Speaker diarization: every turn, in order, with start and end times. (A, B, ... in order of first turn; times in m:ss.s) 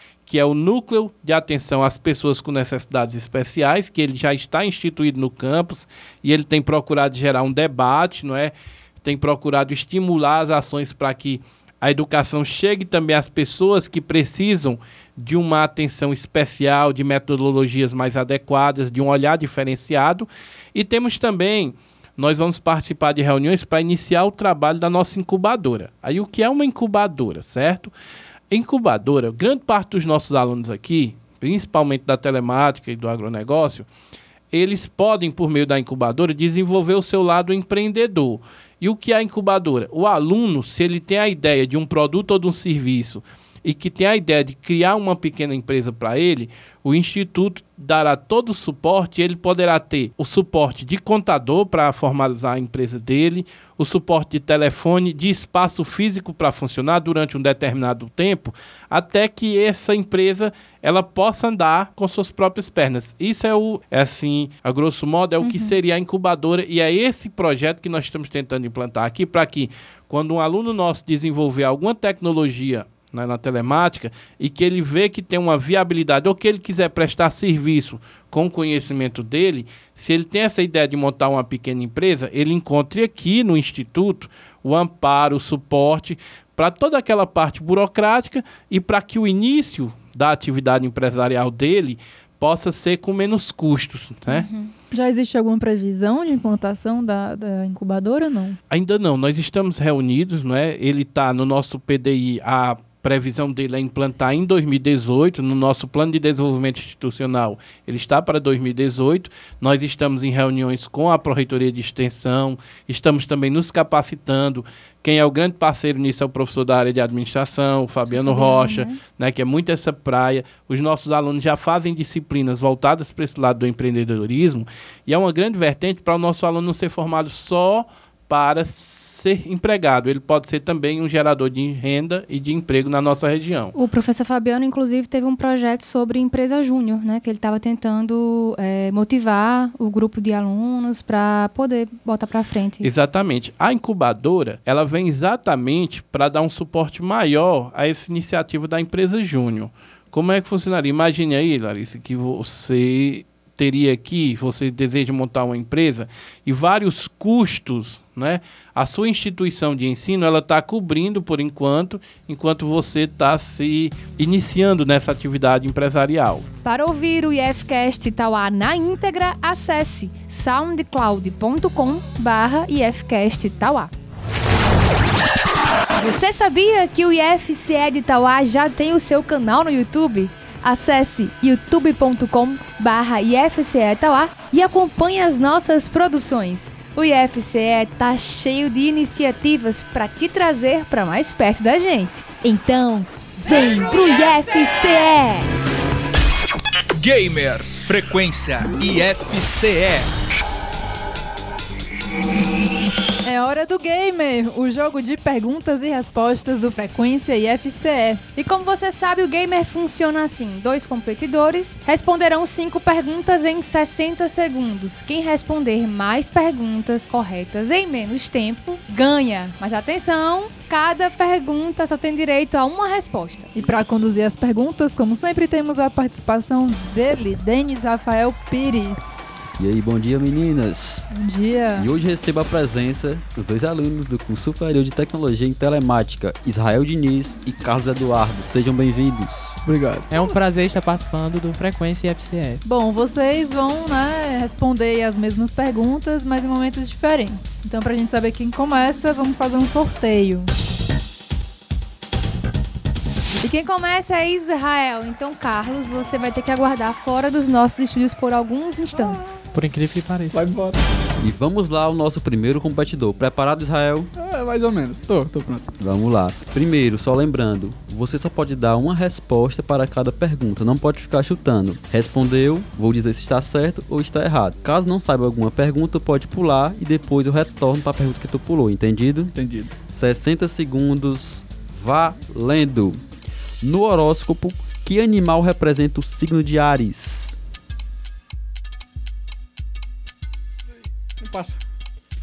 0:00.3-0:27.9 A
0:28.5-0:33.9 A
0:34.5-1:34.5 A
1:05.4-1:05.8 B
1:34.3-1:34.7 B
1:34.9-1:38.6 C
1:38.7-2:13.7 A
1:58.1-1:59.0 B
2:13.8-2:22.9 B
2:22.8-2:46.4 A
2:46.6-2:53.9 B
2:56.0-3:15.5 B
3:17.0-3:20.1 D
3:23.2-3:28.2 C
3:28.4-3:43.5 B
3:43.6-3:49.4 C
3:49.6-3:51.1 E
3:51.1-3:51.9 C
3:51.8-3:59.6 E
3:59.6-4:00.1 F
4:00.1-4:02.6 G
4:02.6-4:10.5 C
4:13.4-4:19.5 B
4:19.5-4:20.4 G
4:20.3-4:20.8 F
4:21.2-4:24.1 E
4:24.2-4:25.7 F
4:25.8-4:39.4 E
4:39.3-4:39.7 F
4:39.9-4:43.0 E
4:43.6-4:47.4 E
4:51.2-4:51.6 F